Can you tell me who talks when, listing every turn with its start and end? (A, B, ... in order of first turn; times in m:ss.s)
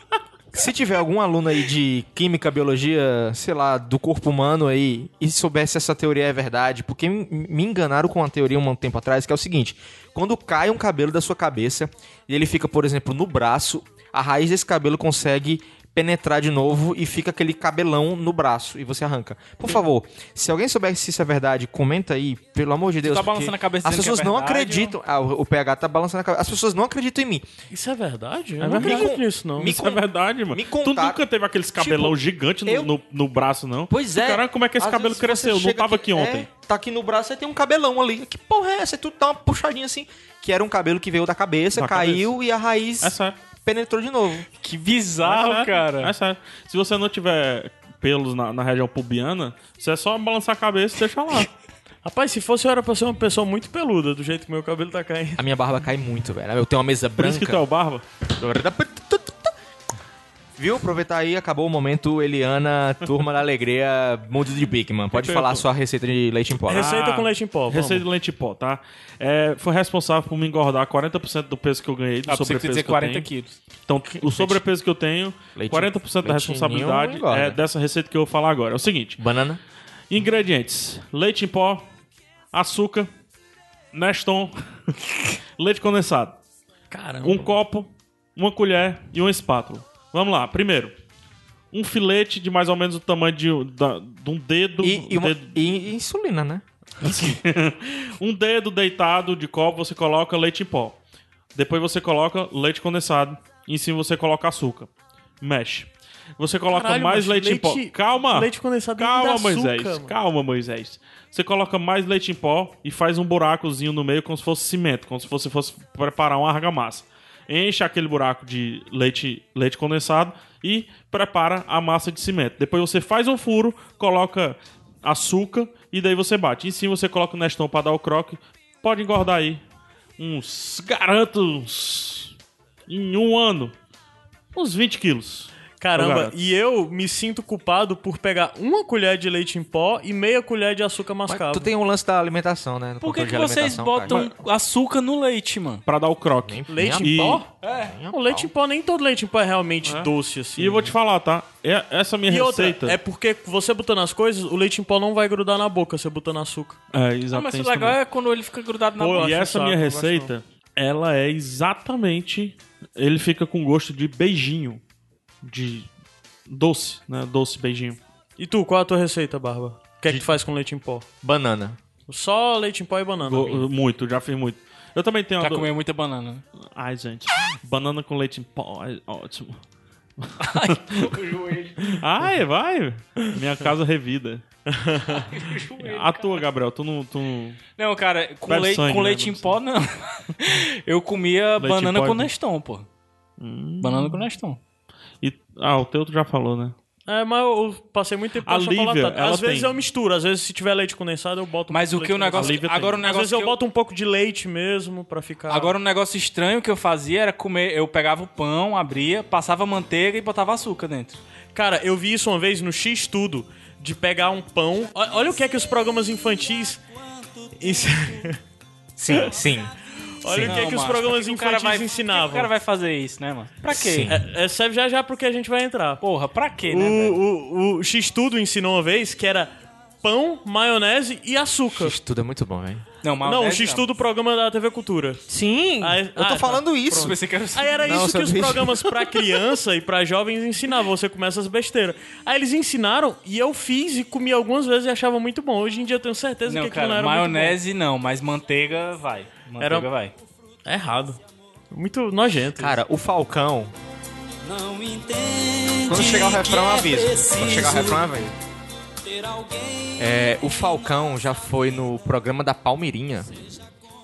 0:00.5-0:27.4 A
0:23.0-0:24.9 B
0:27.7-0:29.7 C
0:28.6-0:36.5 D
0:28.7-0:31.2 A
0:31.8-0:32.9 A
0:33.9-0:44.5 A
0:41.8-0:42.3 D
0:43.0-0:43.4 D
0:44.6-0:46.1 B
0:45.2-0:51.5 D
0:52.0-0:55.4 C
0:55.4-0:57.6 A
0:57.2-0:58.0 D
0:58.3-0:59.5 A
1:00.6-1:07.0 A
1:05.1-1:05.6 D
1:06.7-1:08.0 C
1:06.7-1:13.3 D
1:12.3-1:13.6 B
1:13.9-1:19.2 D
1:15.6-1:17.6 A
1:19.2-1:19.6 A
1:20.1-1:21.9 D
1:22.5-1:23.1 D
1:23.9-1:24.6 D
1:25.6-1:26.4 D
1:26.9-1:27.6 C
1:27.2-1:31.0 D
1:31.7-1:35.8 D
1:34.8-1:36.6 A
1:37.0-1:41.0 D
1:41.6-1:44.9 D
1:45.4-2:09.6 D
1:46.7-1:50.1 C
2:10.2-2:12.3 D
2:12.9-2:13.7 D
2:14.5-2:16.4 D
2:15.8-2:21.7 C
2:21.3-2:24.2 A
2:23.0-2:25.8 B
2:24.1-2:24.3 D
2:25.9-2:27.4 D
2:26.4-2:28.5 A
2:26.7-2:27.5 C
2:27.6-2:27.9 B
2:28.1-2:30.9 C
2:29.8-2:33.0 D
2:32.3-2:36.8 C
2:36.9-2:38.0 D
2:37.3-2:39.4 B
2:39.0-2:40.3 C
2:39.1-2:44.8 D
2:45.4-2:45.9 D
2:46.5-2:48.0 D
2:48.4-2:51.0 C
2:51.2-2:51.8 A
2:52.1-2:53.6 C
2:53.2-2:55.7 D
2:55.4-2:56.4 B
2:56.8-2:59.6 D
3:00.2-3:01.2 D
3:00.4-3:02.0 B
3:01.8-3:04.4 D
3:04.7-3:05.3 C
3:05.2-3:06.4 B
3:05.8-3:07.6 D
3:07.8-3:12.9 B
3:08.5-3:09.6 D
3:11.6-3:12.3 D
3:13.4-3:14.3 D
3:13.8-3:14.6 B
3:15.2-3:16.8 D
3:17.1-3:25.7 C
3:18.4-3:19.8 D
3:21.7-3:23.6 B
3:22.3-3:23.0 D
3:25.5-3:31.2 B
3:31.6-3:36.8 C
3:37.6-3:38.4 C
3:39.0-3:39.7 A
3:40.2-3:42.5 C
3:40.2-3:40.7 A
3:40.4-3:44.1 B
3:43.7-3:44.2 A
3:44.1-3:46.0 C
3:46.0-3:47.2 B
3:46.7-3:49.5 C
3:50.0-3:52.0 C
3:51.7-3:52.8 A
3:53.0-3:53.8 B
3:53.2-3:55.2 C
3:55.3-3:57.2 A
3:55.8-4:07.6 C
3:57.0-3:58.0 B
3:57.8-3:59.1 A
4:06.4-4:10.1 B
4:09.6-4:09.9 C
4:10.6-4:11.2 C
4:11.7-4:12.8 C
4:12.6-4:13.7 A
4:14.4-4:18.2 E
4:15.9-4:18.3 A
4:19.0-4:20.7 E
4:20.0-4:23.3 A